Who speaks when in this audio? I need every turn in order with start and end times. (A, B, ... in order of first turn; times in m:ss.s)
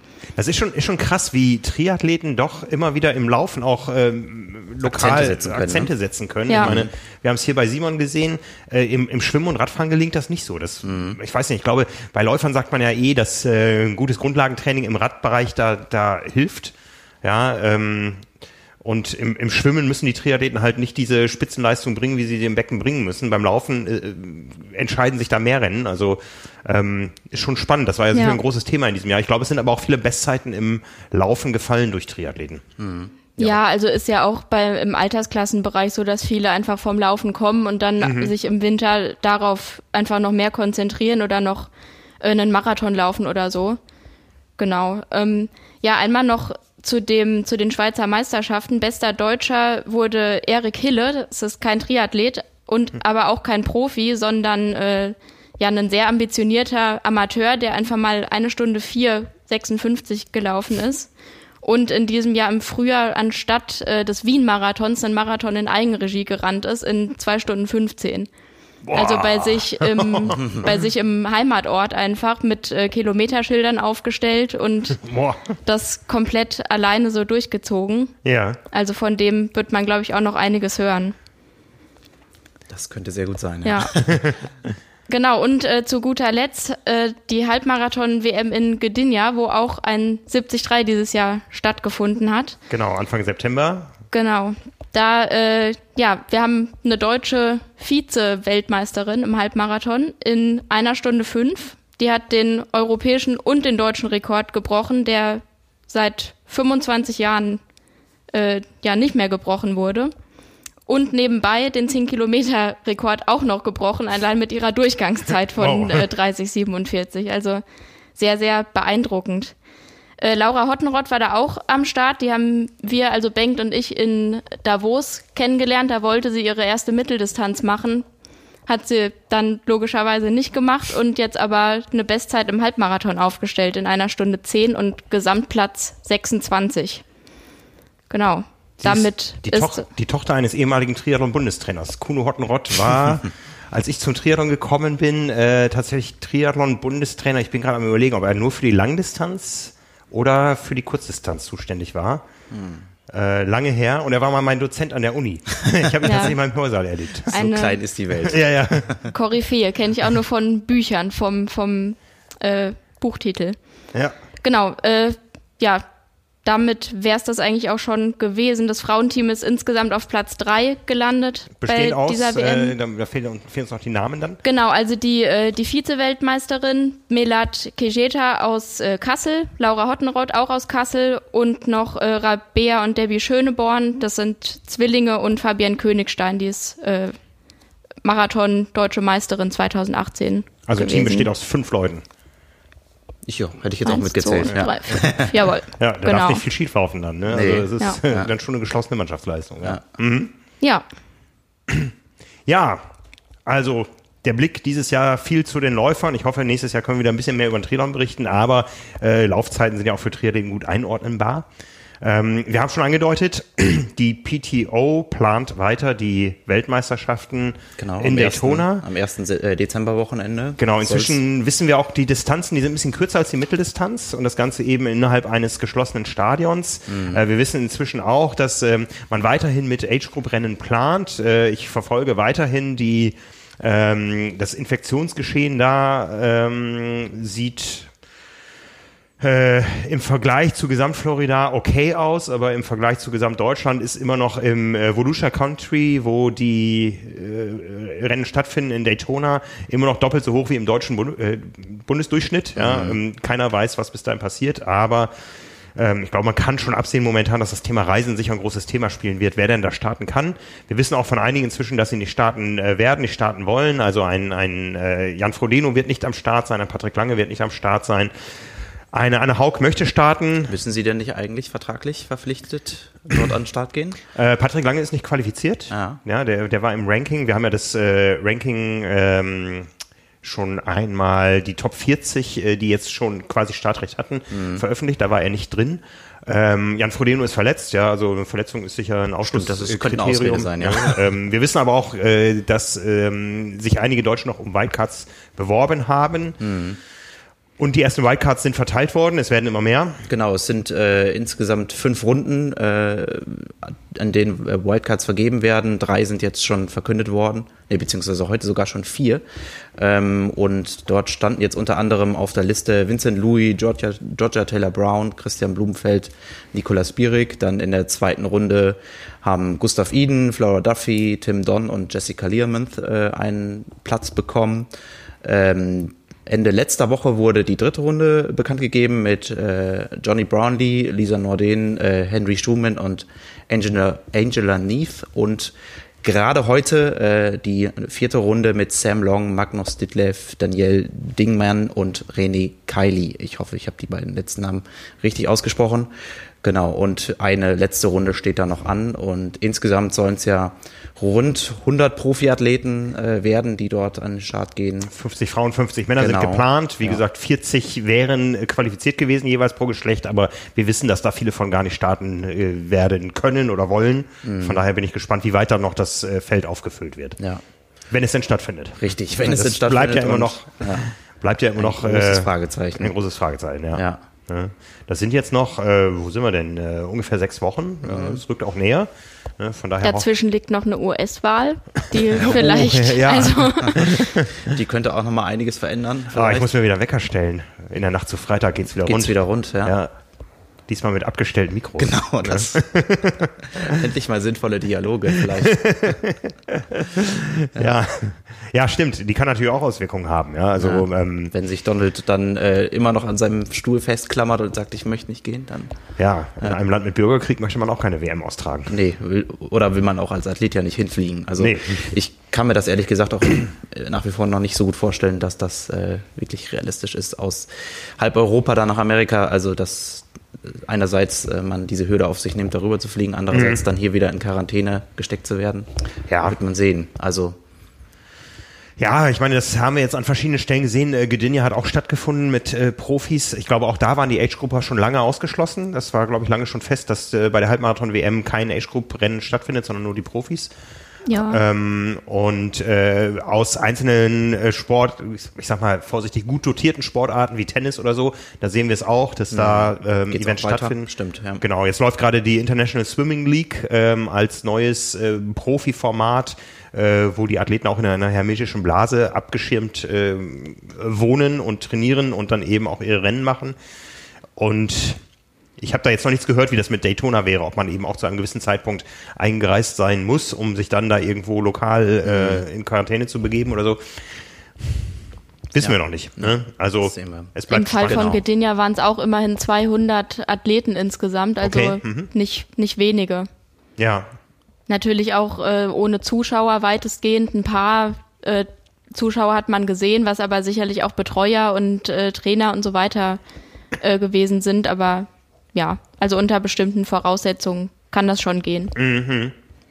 0:00.4-0:18.2 A
0:04.8-0:05.9 B
0:06.5-0:06.8 C
0:06.6-0:06.9 B
0:10.9-0:11.2 B
0:18.8-0:32.6 A
0:28.1-0:28.4 C
0:32.8-0:33.4 B
0:33.4-0:43.8 C
0:38.0-0:38.3 A
0:44.6-1:01.1 C
1:01.6-1:08.3 C
1:08.8-1:10.8 A
1:08.9-1:15.0 C
1:10.4-1:10.7 B
1:15.0-1:15.4 A
1:15.6-1:18.1 C
1:18.2-1:18.6 A
1:18.7-1:21.2 C
1:22.7-1:24.0 B
1:23.6-1:24.0 C
1:24.1-1:24.4 A
1:25.1-1:32.6 C
1:32.7-1:33.9 A
1:34.1-1:47.6 C
1:48.3-1:50.1 C
1:50.9-1:57.6 C
1:55.6-1:56.1 A
1:58.2-1:59.5 C
2:00.2-2:08.1 C
2:08.7-2:17.0 C
2:18.1-2:19.9 C
2:18.8-2:32.3 A
2:32.5-2:32.8 B
2:33.1-2:37.5 A
2:36.0-2:36.3 C
2:37.3-2:37.8 C
2:37.3-2:39.1 B
2:38.2-2:38.9 A
2:39.1-2:43.6 C
2:44.4-2:45.8 C
2:46.4-2:52.7 C
2:51.6-2:54.4 A
2:54.4-3:07.2 C
3:08.0-3:11.3 C
3:10.7-3:12.0 A
3:13.3-3:15.3 B
3:13.8-3:16.4 C
3:14.4-3:15.0 A
3:15.8-3:20.3 A
3:17.3-3:18.3 B
3:22.5-3:22.8 A
3:23.5-3:31.5 A
3:32.0-3:38.8 A
3:37.8-3:41.2 B
3:40.6-3:57.9 A
3:46.9-3:47.2 B
3:59.2-4:15.1 A
4:12.6-4:13.0 B
4:15.8-4:28.1 A
4:28.9-4:30.5 A
4:30.5-4:34.0 B
4:34.2-4:39.7 A
4:35.7-4:36.0 B
4:40.2-4:56.4 A
4:44.3-4:44.6 B
4:49.2-4:51.0 B
4:56.4-4:56.8 B
4:57.6-5:00.0 A
5:00.1-5:09.2 B
5:09.8-5:24.7 B
5:25.2-5:45.9 B
5:46.4-5:54.9 B
5:54.9-6:07.2 A
5:56.0-5:57.0 B
6:04.2-6:04.6 B
6:07.9-6:20.1 A
6:08.8-6:10.9 B
6:11.6-6:13.0 B
6:13.7-6:14.0 B
6:17.8-6:18.2 B
6:19.8-6:24.2 C
6:22.2-6:24.5 A
6:24.4-6:26.5 B
6:26.1-6:29.9 A
6:28.8-6:29.8 B
6:30.7-6:33.8 A
6:31.8-6:32.6 B
6:33.5-6:35.9 B
6:35.2-6:41.3 A
6:40.6-6:45.7 B
6:46.0-6:48.8 A
6:48.7-7:05.7 B
6:51.4-6:51.8 A
7:03.3-7:03.6 A
7:06.1-7:06.4 A
7:06.2-7:07.4 B
7:08.8-7:20.5 A
7:21.1-7:21.4 C
7:21.2-7:43.6 A
7:29.3-7:31.4 B
7:44.4-7:45.0 A
7:45.6-7:54.0 A
7:52.0-7:52.4 B
7:55.5-7:58.2 A
7:55.6-7:57.3 B
7:57.5-8:03.3 C
7:57.8-7:58.2 B
8:01.4-8:02.1 A
8:03.8-8:04.1 A
8:04.7-8:13.2 C
8:13.8-8:18.7 C
8:18.8-8:19.3 A